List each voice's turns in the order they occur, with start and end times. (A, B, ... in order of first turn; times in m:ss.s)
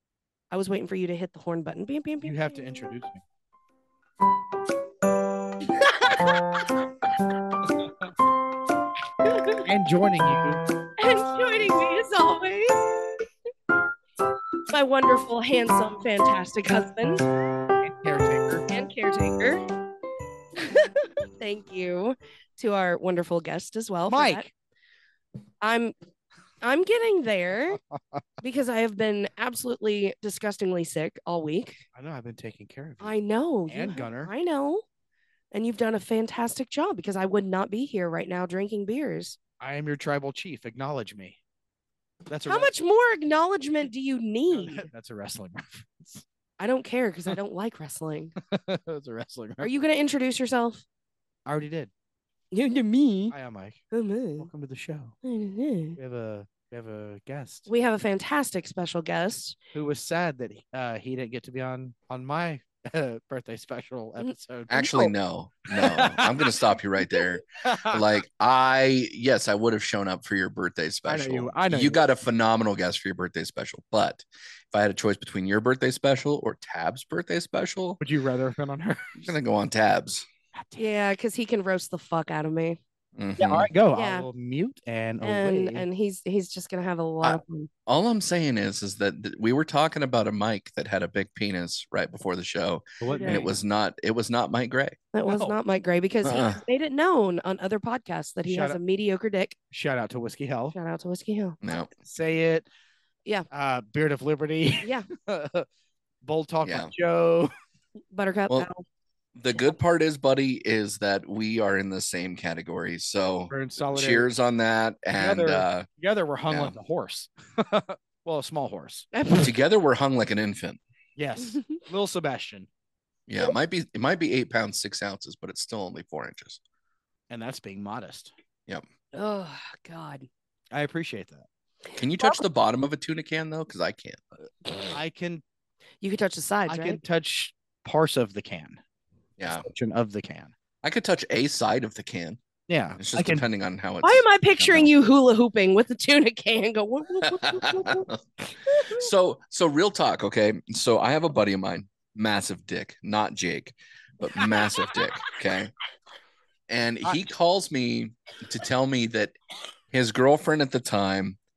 0:00.5-0:02.6 A
0:02.2-0:03.2 B
0:05.8-0:06.3 A
0:09.2-0:09.6 A
0:09.6-0:10.6 B
0:11.0-0:12.9 A
0:14.7-0:17.2 A
0:17.8-0:18.7 B
0:18.7-0:19.6 A
0:20.6-0:24.4 A
0:24.1-0:24.5 B
0:25.6-0:25.9 A
0:26.6-0:27.8 A
0:28.4-0:31.8 A
0:32.0-0:34.3 B
0:33.0-0:34.8 A
0:35.5-0:39.4 A
0:39.6-0:41.4 B
0:42.3-0:42.7 B
0:42.4-0:44.9 A
0:44.5-0:46.2 B
0:46.6-0:48.3 A
0:48.4-0:49.7 B
0:49.6-0:50.8 A
0:51.4-0:51.9 B
0:52.5-0:53.3 A
0:53.3-0:53.8 B
0:53.9-0:54.5 A
0:54.4-0:55.1 B
0:55.2-0:56.0 A
0:56.0-0:57.7 B
0:57.7-0:59.6 A
0:59.7-1:04.9 B
1:04.2-1:05.1 A
1:04.7-1:18.0 C
1:05.7-1:06.6 B
1:07.6-1:08.0 B
1:11.1-1:12.1 B
1:18.0-1:19.3 B
1:19.2-1:20.2 C
1:20.8-1:22.8 A
1:23.2-1:23.7 C
1:23.4-1:25.9 B
1:23.9-1:24.3 A
1:25.2-1:27.7 A
1:27.2-1:35.0 C
1:33.0-1:33.5 B
1:33.1-1:33.5 A
1:35.1-1:39.6 A
1:35.3-1:35.6 B
1:36.2-1:36.6 C
1:38.5-1:38.8 B
1:39.7-1:40.8 B
1:40.7-1:41.6 A
1:41.6-1:41.9 C
1:42.0-1:42.7 B
1:43.5-1:45.7 B
1:44.8-1:45.1 A
1:46.2-1:47.5 B
1:46.6-1:46.9 C
1:48.1-1:48.8 A
1:49.4-1:55.9 C
1:53.5-1:54.3 B
1:55.1-1:59.1 B
1:56.5-1:56.7 C
1:59.1-1:59.5 A
1:59.4-2:00.8 C
2:01.2-2:02.7 B
2:01.4-2:01.8 A
2:03.3-2:06.6 C
2:07.3-2:08.3 B
2:09.1-2:10.3 A
2:10.7-2:11.5 B
2:11.9-2:14.2 C
2:14.9-2:15.4 B
2:16.0-2:17.0 A
2:16.7-2:18.8 B
2:19.4-2:19.7 C
2:19.5-2:20.5 B
2:20.8-2:22.4 C
2:22.7-2:23.4 B
2:23.0-2:24.9 C
2:24.0-2:29.0 A
2:27.3-2:28.2 C
2:28.8-2:35.7 C
2:34.2-2:34.5 A
2:36.7-2:39.4 C
2:39.9-2:41.4 C